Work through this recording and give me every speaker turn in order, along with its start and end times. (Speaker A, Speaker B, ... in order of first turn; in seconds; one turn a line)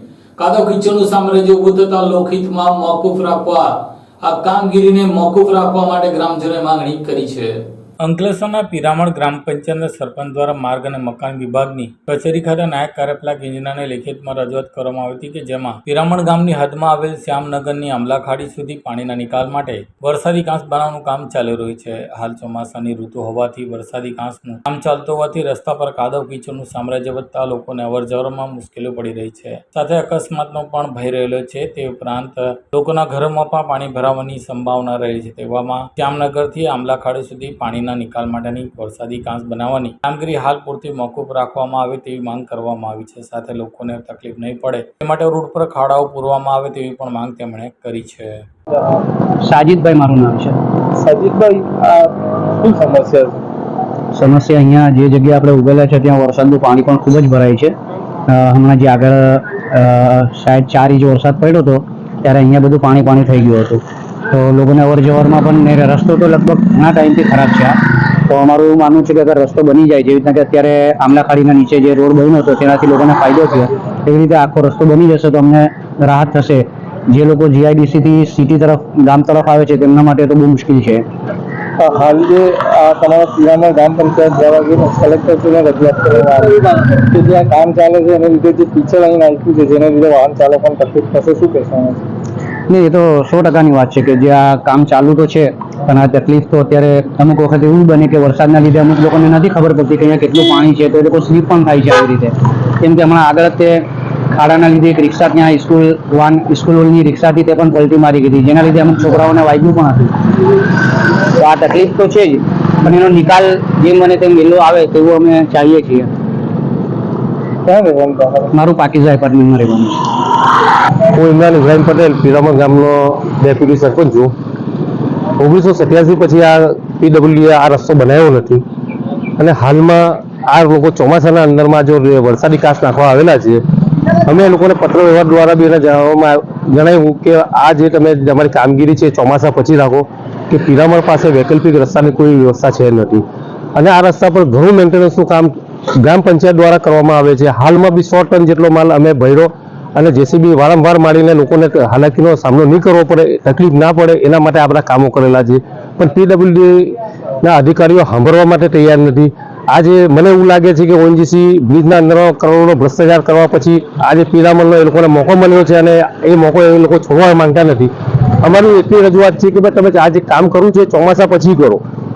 Speaker A: 0.4-48.4
Speaker B: 49.4-50.6
Speaker C: 51.0-53.4
Speaker B: 54.1-57.7
Speaker B: 58.3-81.0
Speaker C: 81.8-92.0
Speaker B: 92.7-110.2
Speaker B: 111.2-116.1
Speaker C: 117.7-118.5
Speaker B: 118.5-120.0
Speaker D: 121.1-124.3
Speaker D: 125.4-128.6
Speaker D: 129.4-133.6
Speaker D: 134.1-143.2
Speaker D: 143.7-171.8